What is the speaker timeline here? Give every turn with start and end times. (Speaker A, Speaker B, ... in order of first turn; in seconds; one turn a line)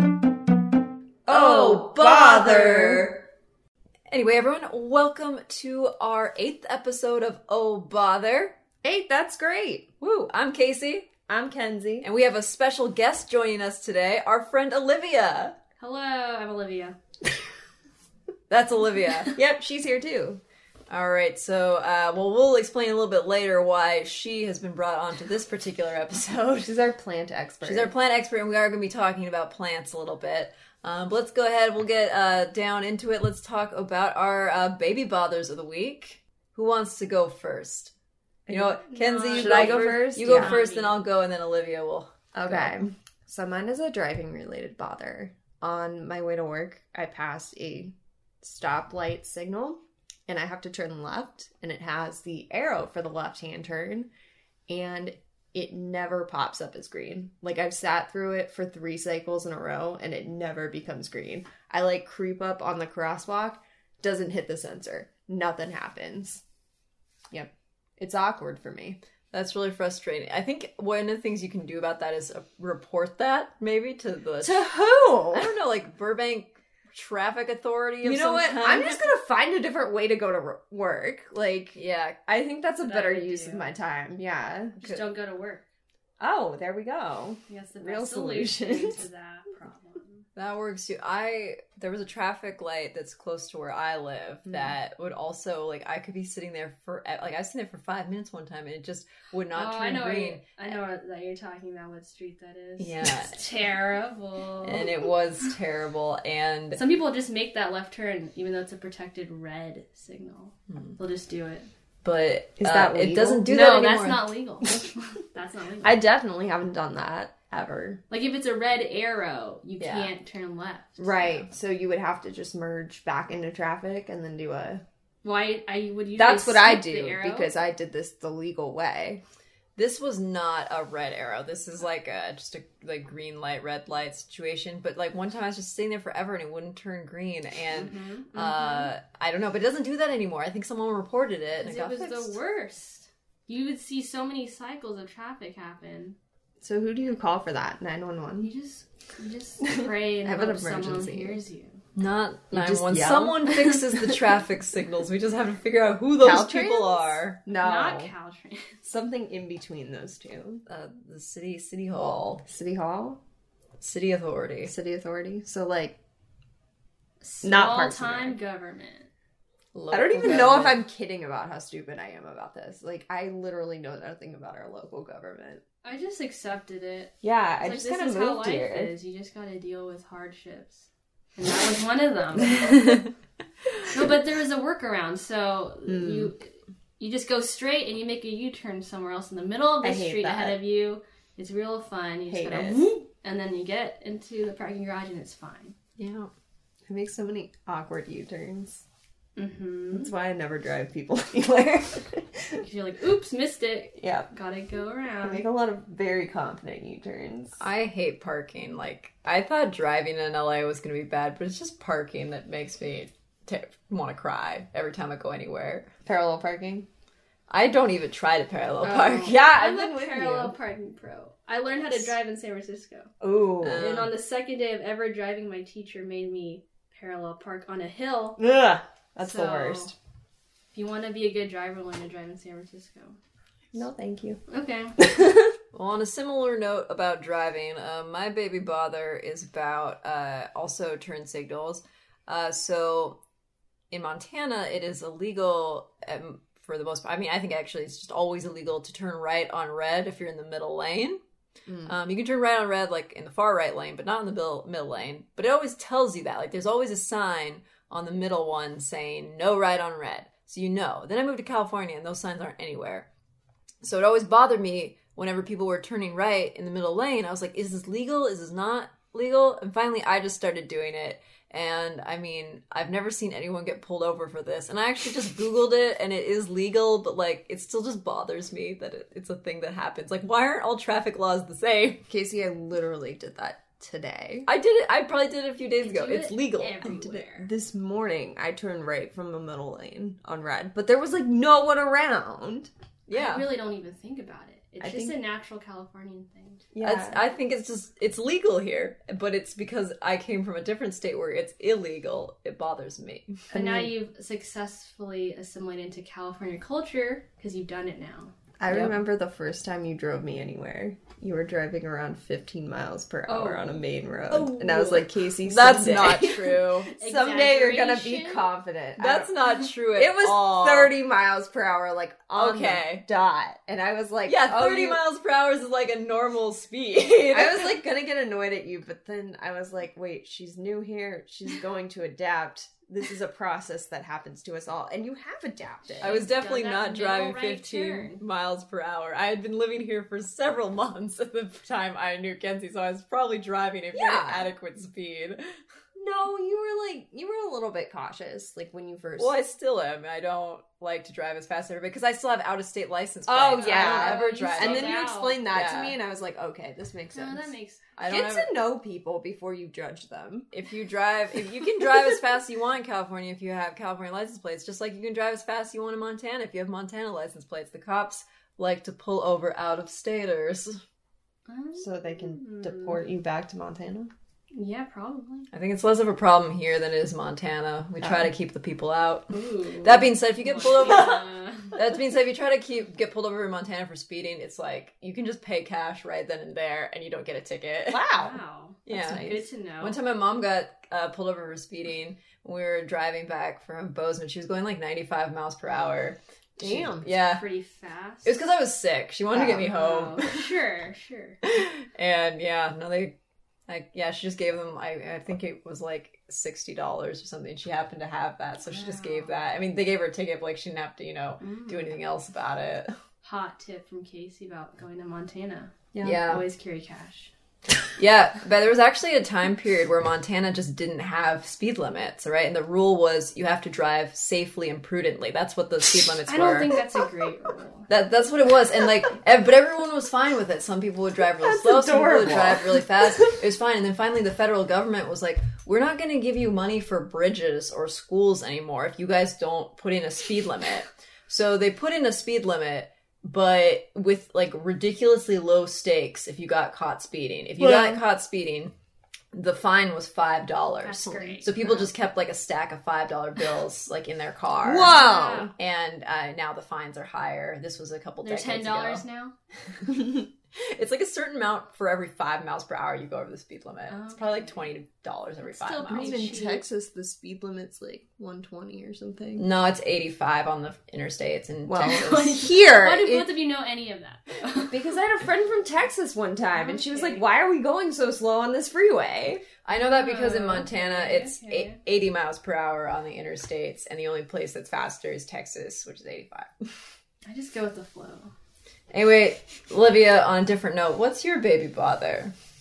Speaker A: 1.2-3.2
Speaker B: 1.3-3.1
Speaker B: 4.1-8.6
Speaker A: 8.8-9.9
Speaker B: 10.0-11.1
Speaker A: 11.3-12.1
Speaker B: 12.0-15.6
Speaker C: 15.8-16.9
Speaker B: 18.5-19.3
Speaker A: 19.3-20.4
Speaker B: 20.9-26.7
Speaker A: 26.6-27.9
Speaker B: 27.6-37.9
Speaker A: 38.5-38.7
Speaker B: 38.5-42.7
Speaker C: 38.8-41.0
Speaker A: 39.3-40.6
Speaker A: 42.3-54.1
Speaker A: 54.7-66.4
Speaker A: 67.3-69.0
Speaker B: 69.3-74.7
Speaker A: 74.4-75.5
Speaker B: 75.3-79.0
Speaker A: 78.0-84.8
Speaker B: 81.7-82.2
Speaker C: 82.8-83.7
Speaker C: 84.8-85.6
Speaker A: 86.2-89.0
Speaker C: 87.5-90.2
Speaker B: 90.3-100.5
Speaker A: 94.5-94.7
Speaker C: 99.5-104.9
Speaker B: 102.8-103.4
Speaker B: 104.6-106.8
Speaker C: 106.8-111.7
Speaker B: 110.7-110.9
Speaker B: 112.0-114.3
Speaker A: 112.6-113.5
Speaker C: 113.5-116.0
Speaker A: 115.8-118.0
Speaker C: 118.1-121.4
Speaker B: 119.8-120.1
Speaker A: 121.0-124.8
Speaker C: 125.2-127.5
Speaker A: 126.2-129.2
Speaker B: 129.8-142.4
Speaker C: 137.7-138.7
Speaker C: 141.6-146.2
Speaker A: 146.6-148.5
Speaker C: 148.4-151.8
Speaker A: 149.7-151.4
Speaker B: 151.9-157.4
Speaker A: 152.5-153.5
Speaker A: 156.2-158.1
Speaker C: 157.6-158.8
Speaker A: 158.8-160.6
Speaker B: 160.7-162.4
Speaker A: 162.4-163.2
Speaker B: 163.8-164.7
Speaker A: 164.6-166.0
Speaker C: 167.2-169.1
Speaker A: 167.4-168.4
Speaker B: 169.7-170.8
Speaker A: 169.9-175.6
Speaker C: 175.8-183.0
Speaker A: 177.2-178.9
Speaker C: 183.8-186.5
Speaker A: 185.8-186.3
Speaker C: 187.0-195.7
Speaker A: 189.8-190.6
Speaker A: 192.3-192.9
Speaker B: 196.0-196.3
Speaker A: 196.9-198.8
Speaker C: 199.3-200.1
Speaker A: 199.9-202.6
Speaker C: 202.5-205.4
Speaker A: 204.0-204.3
Speaker A: 205.2-207.6
Speaker B: 207.6-215.9
Speaker A: 216.0-216.9
Speaker B: 217.5-219.4
Speaker C: 218.8-223.1
Speaker A: 218.9-220.5
Speaker A: 223.2-223.8
Speaker B: 223.6-224.1
Speaker C: 223.7-228.4
Speaker A: 228.4-229.9
Speaker C: 229.2-229.9
Speaker C: 230.7-233.2
Speaker A: 233.7-234.4
Speaker C: 234.5-235.2
Speaker B: 235.7-243.2
Speaker B: 243.9-251.2
Speaker A: 251.7-251.9
Speaker B: 251.8-263.1
Speaker B: 263.8-282.0
Speaker A: 282.1-284.5
Speaker B: 284.4-287.0
Speaker C: 285.8-287.5
Speaker A: 286.8-292.7
Speaker B: 293.1-293.5
Speaker C: 293.1-296.7
Speaker A: 294.8-295.1
Speaker A: 296.7-297.2
Speaker B: 296.8-303.4
Speaker C: 303.5-308.3
Speaker A: 303.5-303.9
Speaker A: 308.6-316.4
Speaker C: 313.3-313.8
Speaker B: 314.3-316.9
Speaker C: 316.9-318.4
Speaker A: 317.0-319.4
Speaker B: 319.0-320.9
Speaker A: 319.9-325.0
Speaker B: 322.3-323.0
Speaker B: 324.2-327.7
Speaker A: 327.3-336.2
Speaker C: 336.0-338.2
Speaker B: 336.0-345.4
Speaker A: 343.9-344.5
Speaker A: 345.9-349.3
Speaker B: 349.2-356.0
Speaker A: 353.3-357.5
Speaker C: 353.5-355.4
Speaker C: 357.1-357.9
Speaker B: 357.9-358.5
Speaker A: 358.1-360.5
Speaker B: 360.5-370.8
Speaker C: 371.5-373.0
Speaker A: 371.8-374.1
Speaker C: 374.5-375.5
Speaker B: 375.5-388.1
Speaker A: 378.0-378.3
Speaker C: 379.3-381.8
Speaker A: 387.9-388.4
Speaker C: 388.1-390.0
Speaker B: 388.9-397.4
Speaker A: 388.9-389.4
Speaker A: 396.6-397.1
Speaker C: 397.1-398.4
Speaker B: 398.2-400.4
Speaker A: 399.3-399.6
Speaker C: 399.5-401.4
Speaker B: 401.4-403.2
Speaker B: 403.7-412.9
Speaker C: 408.6-409.4
Speaker C: 411.4-411.9
Speaker C: 413.2-417.3
Speaker B: 416.0-416.4
Speaker B: 418.0-426.7
Speaker C: 426.3-427.9
Speaker B: 427.9-448.7
Speaker A: 431.4-432.8
Speaker A: 447.6-448.0
Speaker B: 449.3-454.9
Speaker C: 450.8-451.9
Speaker A: 454.6-455.5
Speaker C: 454.8-455.5
Speaker B: 455.6-459.0
Speaker C: 458.2-459.3
Speaker B: 459.9-466.3
Speaker C: 463.9-464.7
Speaker C: 465.4-466.6
Speaker A: 465.9-469.4
Speaker B: 469.4-472.4
Speaker A: 471.7-473.3
Speaker C: 471.8-474.8
Speaker A: 474.7-479.4
Speaker C: 476.6-477.2
Speaker B: 479.6-486.7
Speaker C: 479.7-481.8
Speaker C: 487.2-488.3
Speaker B: 488.9-492.3